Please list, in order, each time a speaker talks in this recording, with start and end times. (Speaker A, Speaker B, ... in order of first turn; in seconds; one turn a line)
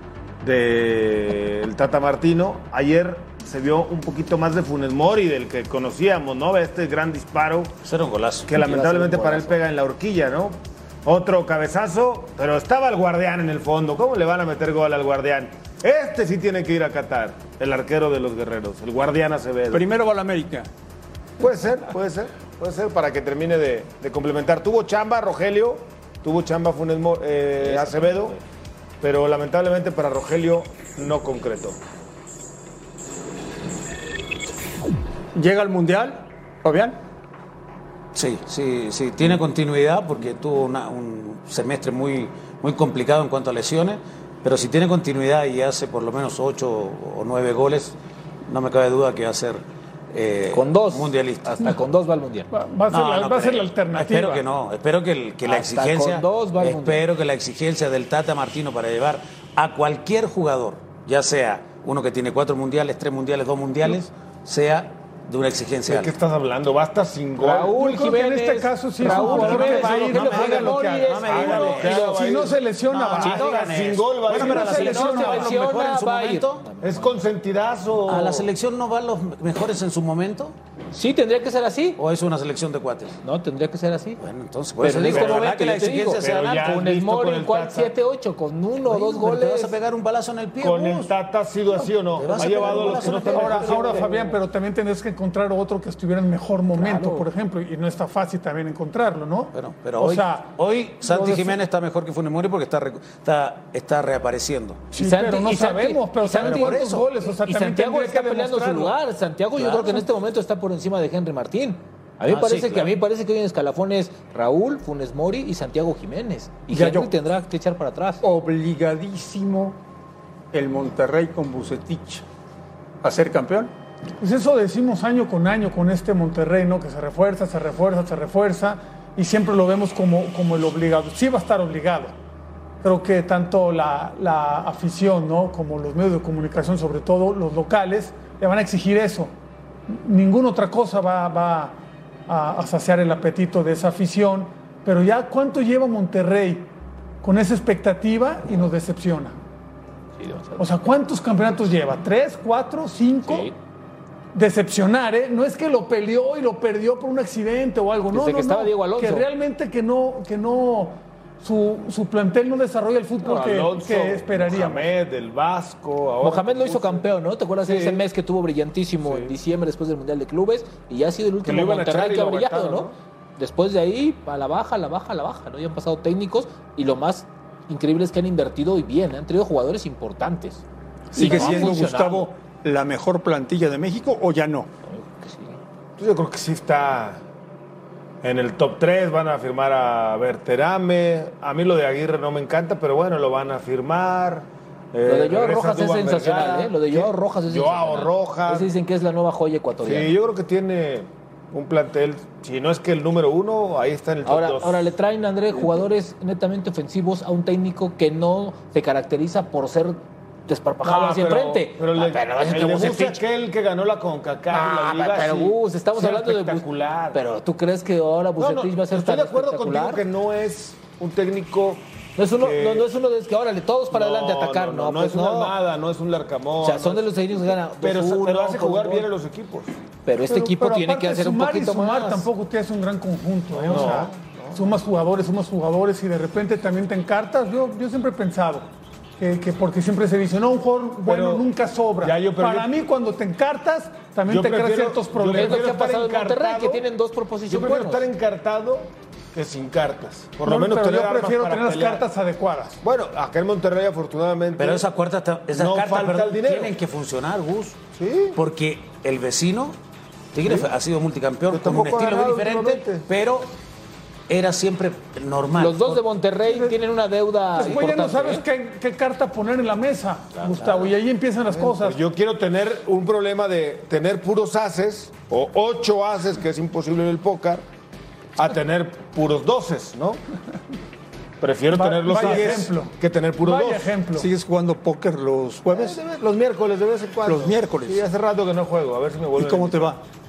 Speaker A: 0.4-7.7
Speaker B: 7.8-8.5
Speaker A: 8.5-19.9
Speaker C: 8.5-9.6
Speaker D: 19.7-20.7
Speaker A: 21.4-28.4
Speaker C: 27.6-28.4
Speaker A: 29.0-31.8
Speaker D: 35.4-37.0
Speaker B: 38.1-48.0
Speaker B: 48.5-51.8
Speaker C: 50.5-52.5
Speaker E: 52.5-54.4
Speaker B: 52.9-66.1
Speaker C: 55.4-57.0
Speaker A: 65.9-67.8
Speaker C: 67.4-72.5
Speaker E: 67.7-71.2
Speaker B: 69.0-72.4
Speaker A: 69.2-70.5
Speaker A: 71.2-75.1
Speaker E: 71.8-73.5
Speaker B: 72.9-76.6
Speaker E: 74.3-75.5
Speaker C: 74.4-77.2
Speaker A: 76.8-78.5
Speaker B: 78.1-80.5
Speaker C: 80.9-82.0
Speaker B: 82.0-83.2
Speaker C: 83.2-84.2
Speaker B: 84.2-86.8
Speaker C: 84.8-89.7
Speaker A: 85.1-85.5
Speaker A: 86.2-87.9
Speaker B: 88.9-91.1
Speaker A: 90.6-94.1
Speaker B: 92.1-94.1
Speaker C: 92.2-94.4
Speaker E: 93.1-101.6
Speaker C: 96.7-97.3
Speaker B: 99.5-104.8
Speaker E: 104.9-108.9
Speaker C: 104.9-118.2
Speaker B: 106.4-107.1
Speaker B: 109.5-110.0
Speaker B: 112.3-112.9
Speaker D: 116.7-117.1
Speaker D: 118.2-119.8
Speaker D: 120.5-122.2
Speaker D: 123.0-123.7
Speaker E: 124.2-132.1
Speaker E: 132.8-139.3
Speaker E: 139.9-149.4
Speaker C: 150.2-150.6
Speaker E: 150.6-153.5
Speaker C: 153.2-153.5
Speaker E: 154.3-164.9
Speaker C: 158.1-159.3
Speaker A: 163.2-167.1
Speaker C: 166.2-182.3
Speaker A: 167.6-168.0
Speaker A: 169.0-169.3
Speaker A: 171.4-172.9
Speaker D: 181.1-184.7
Speaker C: 184.9-185.6
Speaker A: 186.0-187.2
Speaker A: 188.2-198.7
Speaker C: 195.1-200.1
Speaker A: 199.8-204.9
Speaker C: 204.2-213.2
Speaker A: 210.8-217.2
Speaker C: 214.5-220.0
Speaker A: 218.4-221.8
Speaker C: 222.2-225.6
Speaker A: 222.4-222.9
Speaker A: 223.9-227.1
Speaker C: 226.6-229.1
Speaker A: 227.7-229.7
Speaker C: 230.1-232.3
Speaker E: 230.3-245.7
Speaker A: 233.6-234.7
Speaker C: 233.6-234.0
Speaker A: 241.0-241.5
Speaker A: 242.0-242.7
Speaker A: 244.3-246.8
Speaker C: 245.3-248.1
Speaker A: 247.5-252.1
Speaker E: 250.4-252.8
Speaker A: 252.8-254.9
Speaker B: 254.6-257.8
Speaker A: 255.5-256.7
Speaker A: 257.9-258.4
Speaker B: 258.3-259.8
Speaker B: 260.3-263.6
Speaker A: 261.5-263.1
Speaker B: 264.3-266.0
Speaker C: 265.6-268.4
Speaker E: 266.4-266.7
Speaker E: 267.5-272.0
Speaker A: 271.5-277.6
Speaker A: 278.4-280.2
Speaker A: 281.4-284.0
Speaker E: 281.7-284.3
Speaker D: 282.1-282.7
Speaker D: 284.1-286.0
Speaker A: 285.7-289.9
Speaker D: 287.2-288.1
Speaker D: 289.4-290.0